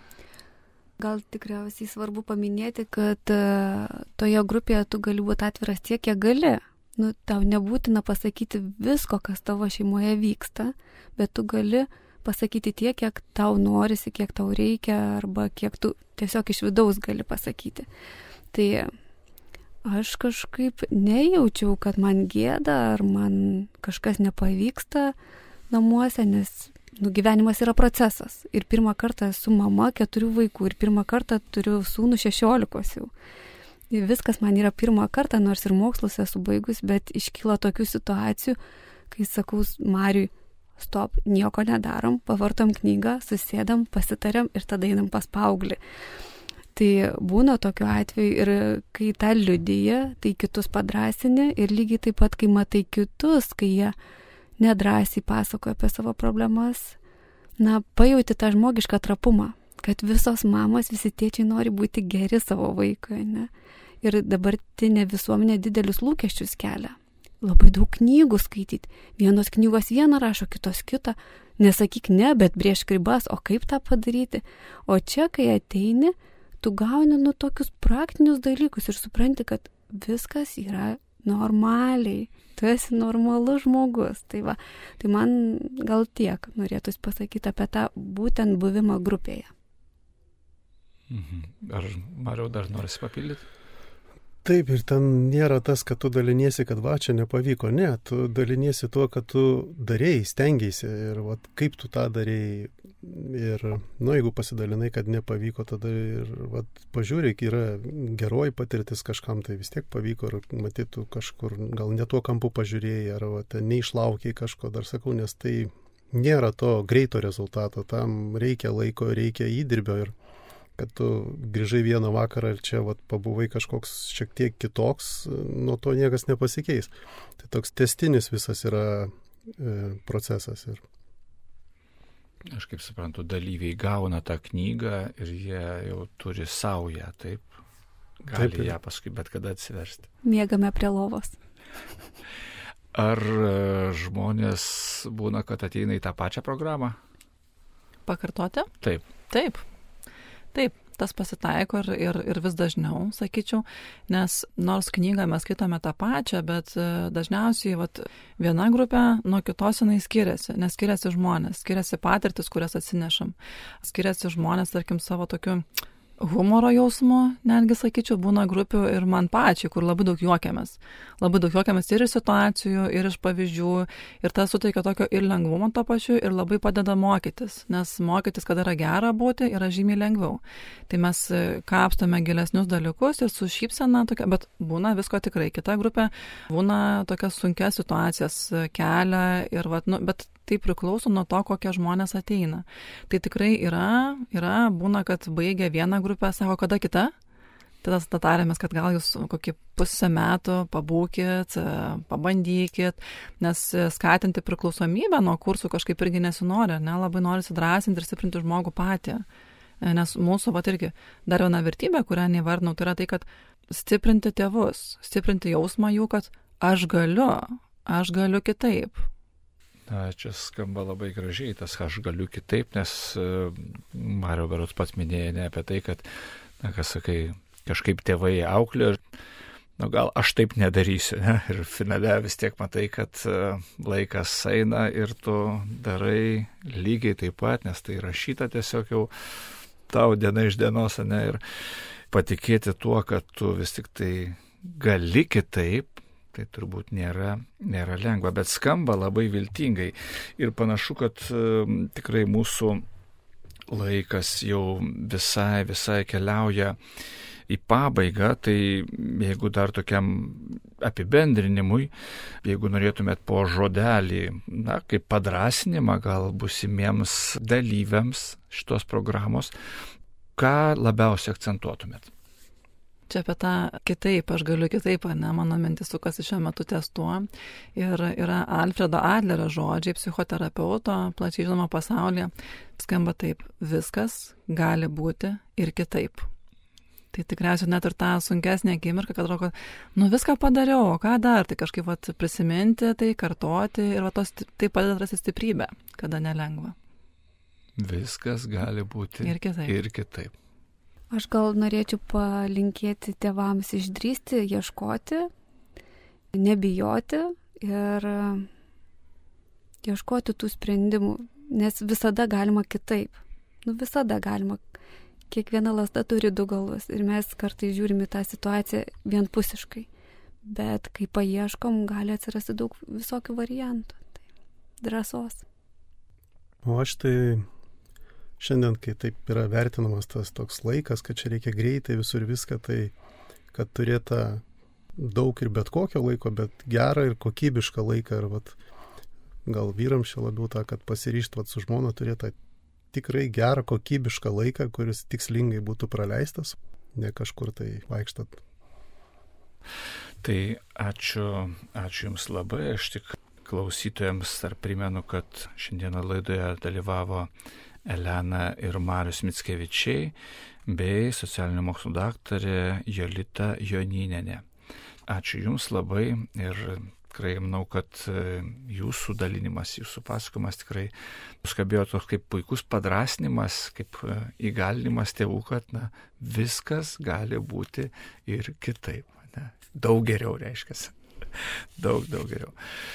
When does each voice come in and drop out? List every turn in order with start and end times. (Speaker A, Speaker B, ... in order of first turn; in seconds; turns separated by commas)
Speaker A: 1.0-17.9, Speaker A: 18.5-18.9, Speaker A: 19.8-25.1, Speaker A: 25.7-33.1, Speaker A: 33.9-38.6, Speaker A: 39.1-45.8, Speaker A: 46.7-53.9, Speaker A: 54.6-57.0, Speaker A: 57.6-63.5, Speaker A: 64.0-89.5, Speaker B: 91.1-93.4, Speaker C: 94.4-120.1, Speaker C: 120.8-130.8, Speaker B: 132.5-137.5, Speaker B: 138.2-140.1, Speaker C: 138.3-138.7, Speaker A: 140.2-141.4, Speaker B: 142.9-147.0, Speaker D: 148.1-148.7, Speaker B: 148.8-149.1, Speaker D: 149.3-149.6, Speaker D: 150.5-165.7, Speaker D: 166.2-197.1, Speaker D: 197.8-209.2, Speaker D: 209.8-219.1, Speaker B: 219.9-226.1, Speaker B: 226.6-229.0, Speaker B: 229.8-241.4, Speaker B: 242.1-252.8, Speaker B: 253.7-256.8, Speaker B: 257.5-261.9, Speaker B: 262.4-269.5, Speaker B: 270.4-272.1, Speaker D: 273.1-286.3, Speaker D: 287.1-296.7, Speaker B: 297.8-300.3, Speaker D: 299.2-299.7, Speaker A: 301.1-305.3, Speaker A: 306.3-308.5, Speaker A: 309.8-314.6, Speaker A: 315.3-319.9, Speaker A: 320.4-324.1, Speaker A: 324.8-325.4, Speaker C: 326.6-327.4, Speaker C: 328.4-332.9, Speaker C: 333.5-334.4, Speaker C: 335.0-338.6, Speaker C: 339.4-342.3, Speaker C: 342.9-348.4, Speaker B: 350.2-357.3, Speaker B: 357.8-360.1, Speaker B: 360.6-364.4, Speaker B: 365.1-370.9, Speaker B: 371.4-382.5